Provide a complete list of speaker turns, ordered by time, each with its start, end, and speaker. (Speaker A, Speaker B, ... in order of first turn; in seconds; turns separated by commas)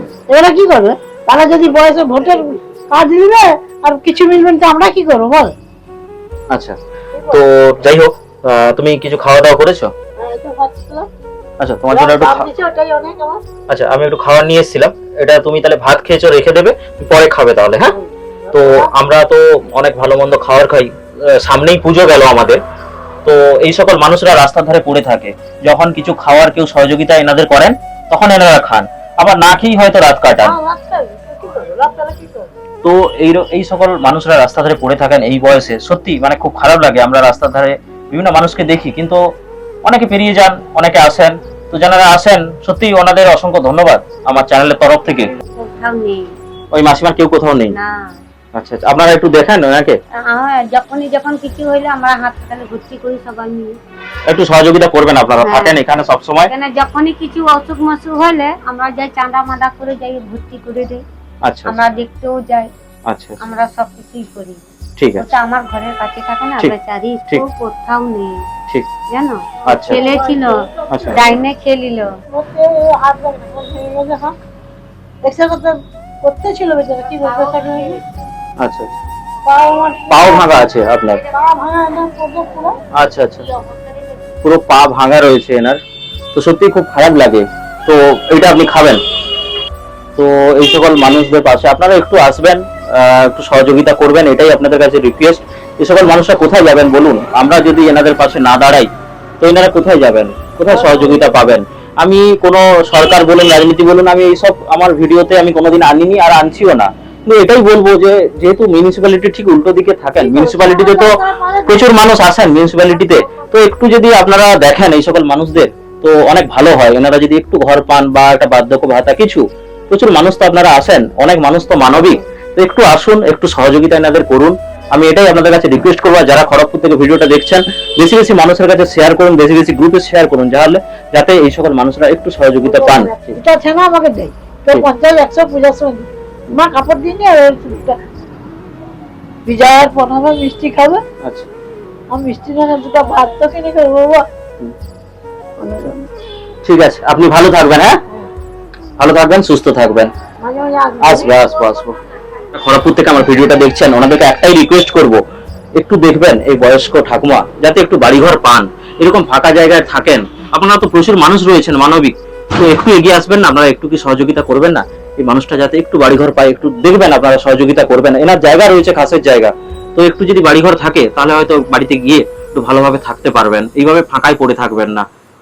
Speaker A: 0.3-5.5, Speaker B: 6.5-6.8, Speaker A: 7.2-7.4, Speaker B: 7.3-9.9, Speaker A: 10.2-11.1, Speaker B: 11.6-12.5, Speaker A: 11.9-13.4, Speaker B: 13.7-18.0, Speaker A: 18.0-18.9, Speaker B: 18.5-22.6, Speaker B: 23.2-30.6, Speaker A: 30.4-32.5, Speaker B: 32.8-39.2, Speaker B: 39.8-45.3, Speaker C: 45.5-46.3, Speaker B: 46.7-47.8, Speaker C: 47.7-48.1, Speaker B: 48.6-50.0, Speaker C: 50.3-53.8, Speaker B: 54.3-56.5, Speaker C: 55.4-55.8, Speaker C: 56.5-61.0, Speaker B: 61.5-61.8, Speaker C: 61.7-62.7, Speaker B: 63.1-63.4, Speaker C: 63.4-64.6, Speaker B: 65.0-65.2, Speaker C: 65.2-68.4, Speaker C: 69.1-72.2, Speaker B: 69.7-70.1, Speaker A: 69.7-71.4, Speaker B: 70.9-71.2, Speaker A: 72.3-74.3, Speaker A: 75.2-78.0, Speaker B: 78.6-78.9, Speaker A: 79.4-80.7, Speaker B: 80.1-81.2, Speaker A: 81.2-82.8, Speaker B: 83.0-83.4, Speaker B: 84.4-85.8, Speaker B: 86.3-89.0, Speaker B: 90.2-133.4, Speaker A: 100.7-101.4, Speaker A: 110.2-112.0, Speaker A: 113.1-113.4, Speaker A: 132.6-138.0, Speaker A: 139.4-141.0, Speaker B: 141.2-141.5, Speaker A: 142.1-144.2, Speaker A: 145.6-146.1, Speaker B: 146.6-148.0, Speaker B: 149.0-150.1, Speaker A: 150.4-151.4, Speaker B: 151.0-151.9, Speaker B: 152.5-155.2, Speaker B: 155.8-175.1